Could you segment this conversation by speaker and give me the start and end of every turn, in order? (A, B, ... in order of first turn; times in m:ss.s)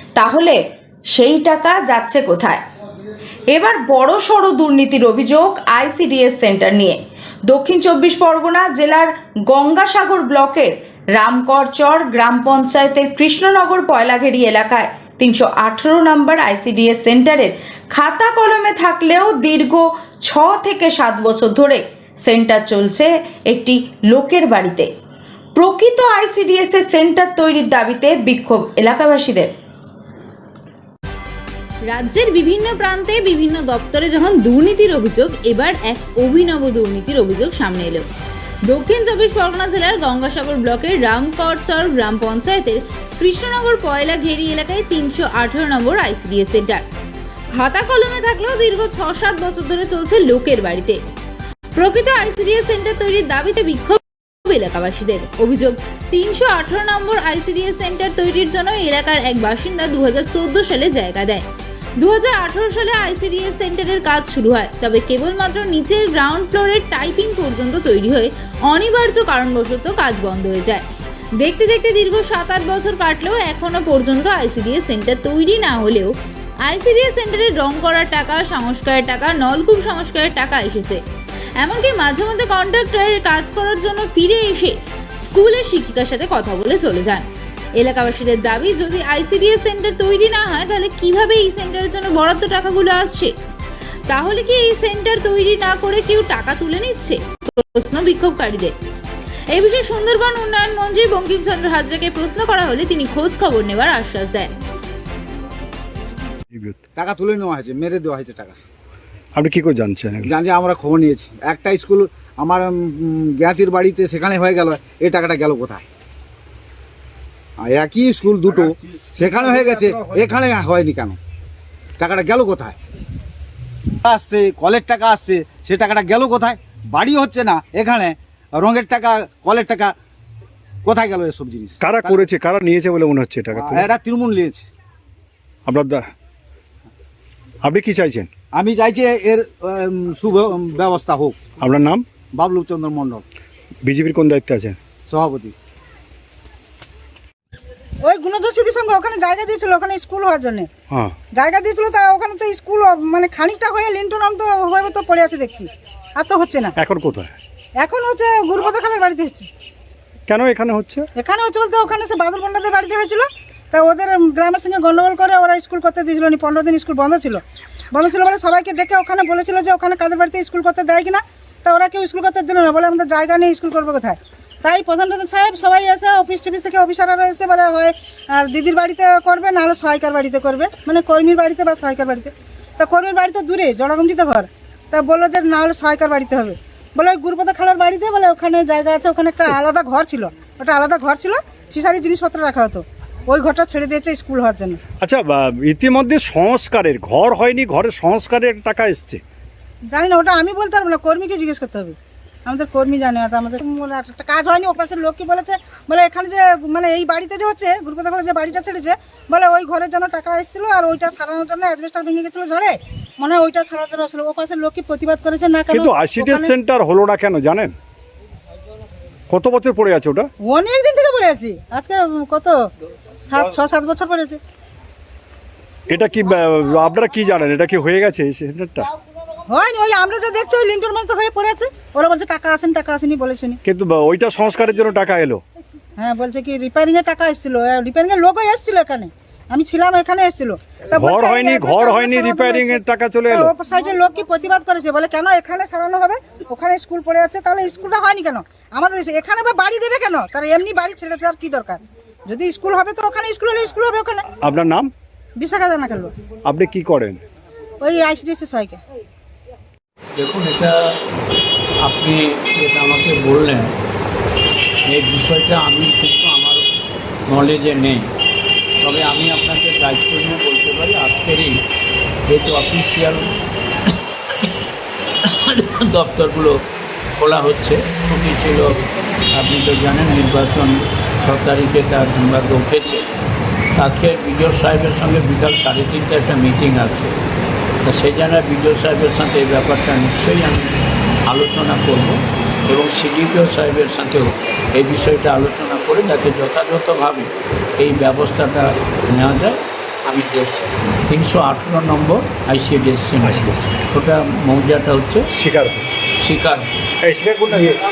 0:00.2-0:00.6 A
0:01.1-0:02.6 A
0:03.5-0:24.9 A
0:25.6-0:29.5 A
0:31.9-0:38.0 B
0:38.7-0:46.8 B
0:47.5-0:51.0 B
0:51.8-1:01.4 B
1:02.0-1:10.8 B
1:11.4-1:16.1 B
1:16.6-1:21.0 B
1:21.6-1:27.2 B
1:27.8-1:33.3 B
1:34.1-1:38.7 B
1:39.5-1:44.5 B
1:46.5-1:46.8 C
1:47.0-1:48.6 D
1:49.4-1:50.3 C
1:50.2-1:55.9 D
1:57.6-2:01.2 D
2:02.0-2:02.8 D
2:04.0-2:10.0 D
2:10.8-2:12.3 D
2:11.8-2:13.9 C
2:13.5-2:14.6 D
2:15.7-2:16.1 C
2:17.6-2:18.3 C
2:18.5-2:21.4 D
2:21.6-2:22.1 C
2:22.3-2:23.2 D
2:23.8-2:24.8 C
2:25.1-2:25.5 D
2:28.0-2:30.7 E
2:31.3-2:36.7 E
2:36.8-2:37.4 C
2:37.8-2:39.5 E
2:40.3-2:41.1 C
2:41.2-2:47.4 E
2:47.9-3:14.8 E
3:15.0-3:19.2 C
3:19.9-3:36.5 E
3:35.7-3:37.7 C
3:39.3-3:40.3 C
3:40.4-3:42.6 E
3:43.2-3:44.4 E
3:45.9-3:48.9 C
3:49.5-3:53.6 E
3:53.6-3:55.4 C
3:56.0-4:14.3 E
4:00.9-4:03.5 C
4:14.4-4:14.9 C
4:15.4-4:16.1 E
4:16.4-4:17.2 C
4:17.8-4:18.8 E
4:20.2-4:20.7 F
4:21.8-4:23.7 F
4:24.9-4:26.7 F
4:27.3-4:28.1 F
4:28.8-4:31.6 F
4:32.3-4:33.2 F
4:35.2-4:36.6 F
4:37.2-4:38.8 F
4:39.3-4:43.0 F
4:43.8-4:47.2 F
4:47.8-4:50.7 F
4:51.3-5:05.3 F
5:03.2-5:03.9 C
5:05.3-5:05.9 C
5:06.2-5:06.7 F
5:07.0-5:07.8 C